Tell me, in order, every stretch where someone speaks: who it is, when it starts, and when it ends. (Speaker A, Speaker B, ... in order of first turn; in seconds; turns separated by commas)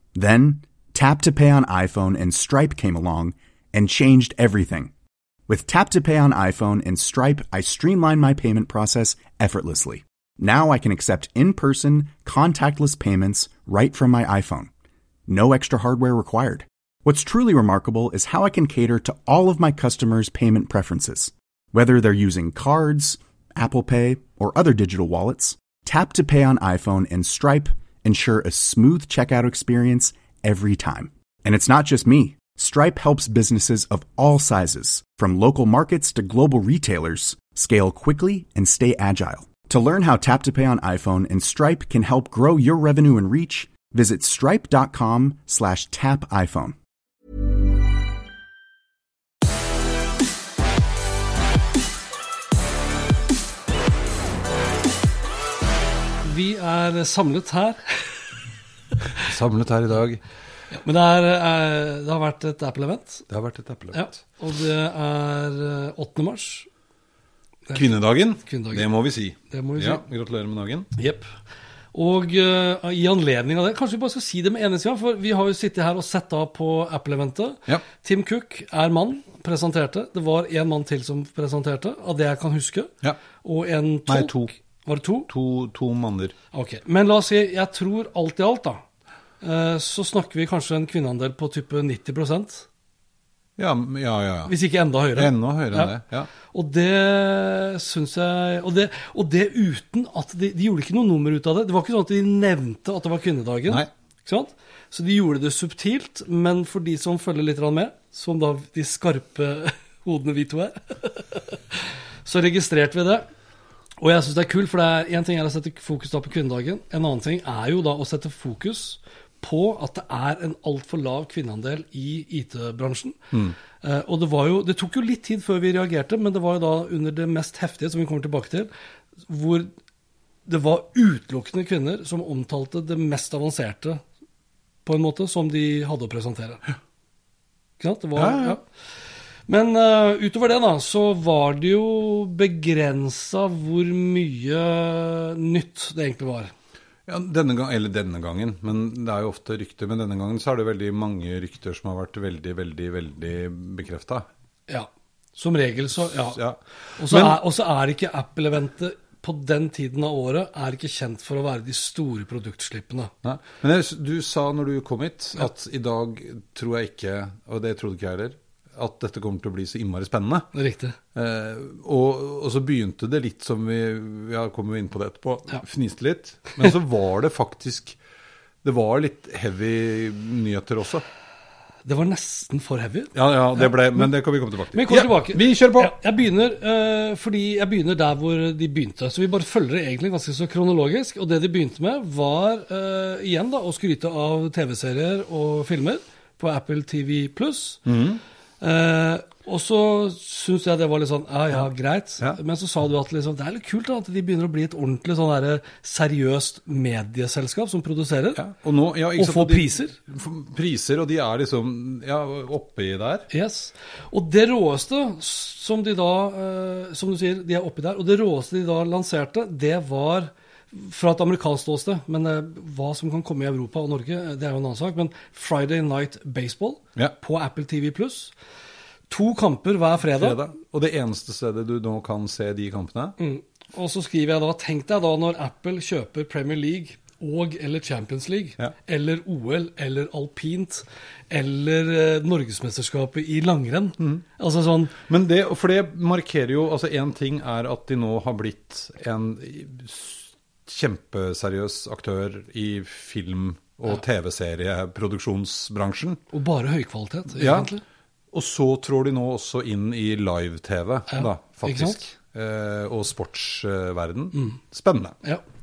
Speaker A: 0.2-4.9, Speaker A: 5.5-14.7, Speaker A: 15.3-46.8, Speaker B: 56.2-58.2, Speaker C: 59.2-60.2, Speaker B: 60.7-63.3, Speaker C: 63.3-64.2, Speaker B: 63.9-66.7, Speaker B: 67.7-68.9, Speaker C: 67.7-70.9, Speaker B: 69.5-70.0, Speaker B: 71.0-71.3, Speaker B: 71.9-85.3, Speaker C: 84.1-84.5, Speaker C: 85.3-86.3, Speaker B: 86.5-88.8, Speaker B: 89.4-92.7, Speaker C: 93.6-94.5, Speaker B: 94.5-113.3, Speaker C: 95.2-96.3, Speaker B: 114.0-123.3, Speaker B: 123.8-128.7, Speaker B: 129.3-129.7, Speaker B: 130.5-134.0, Speaker B: 134.8-136.6, Speaker B: 137.8-138.6, Speaker C: 138.2-138.6, Speaker B: 139.5-146.5, Speaker C: 147.1-154.3, Speaker B: 154.7-156.4, Speaker C: 156.2-157.4, Speaker B: 157.0-163.1, Speaker C: 163.2-170.5, Speaker B: 170.5-171.0, Speaker C: 171.2-178.0, Speaker C: 178.6-181.1, Speaker B: 181.8-184.1, Speaker C: 183.2-185.9, Speaker B: 184.7-197.8, Speaker C: 197.9-198.2, Speaker B: 198.6-208.4, Speaker C: 208.4-213.3, Speaker B: 209.2-210.0, Speaker B: 213.3-228.3, Speaker B: 229.1-230.4, Speaker C: 230.1-233.2, Speaker B: 233.2-244.9, Speaker C: 244.0-244.2, Speaker C: 245.1-256.2, Speaker B: 256.3-257.8, Speaker C: 257.4-257.7, Speaker C: 258.3-265.2, Speaker B: 261.1-262.0